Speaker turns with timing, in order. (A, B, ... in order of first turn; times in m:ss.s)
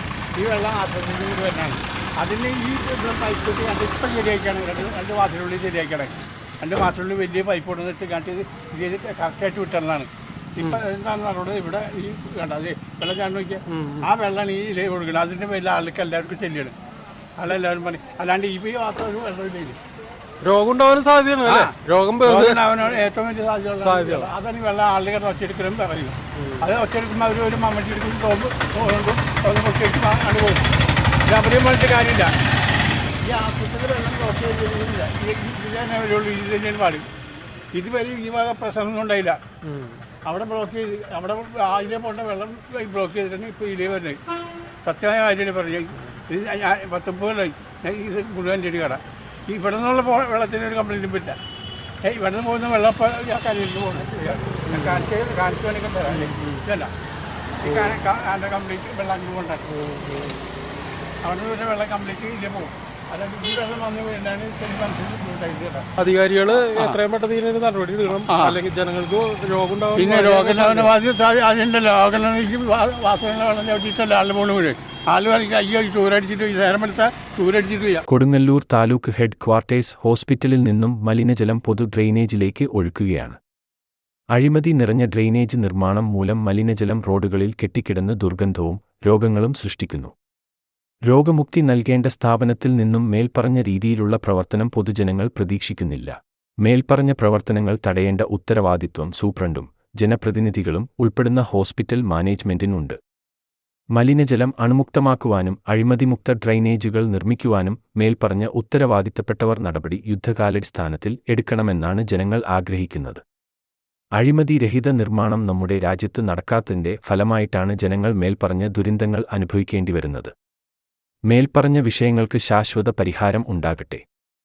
0:00.4-0:16.7 A
0:13.7-0:14.1 B
0:17.4-0:19.8 A
0:20.4-0:22.6 B
0:21.4-0:30.7 A
0:23.8-0:24.3 B
0:26.4-0:26.7 B
0:31.2-0:32.3 A
0:33.2-0:37.0 A
0:37.7-0:39.4 A
0:39.6-0:40.0 B
0:40.2-0:44.2 A
0:44.8-0:51.4 A
0:52.0-0:56.9 A
0:54.6-0:55.1 B
0:56.1-0:56.6 B
0:57.6-0:59.7 A
0:57.6-0:57.9 B
0:59.7-1:00.4 B
1:01.2-1:05.8 A
1:06.0-1:10.9 B
1:08.1-1:08.6 A
1:09.9-1:18.0 A
1:18.1-1:23.4 C
1:24.3-1:30.1 C
1:31.1-1:43.0 C
1:44.0-1:53.2 C
1:54.2-2:00.3 C
2:01.3-2:04.0 C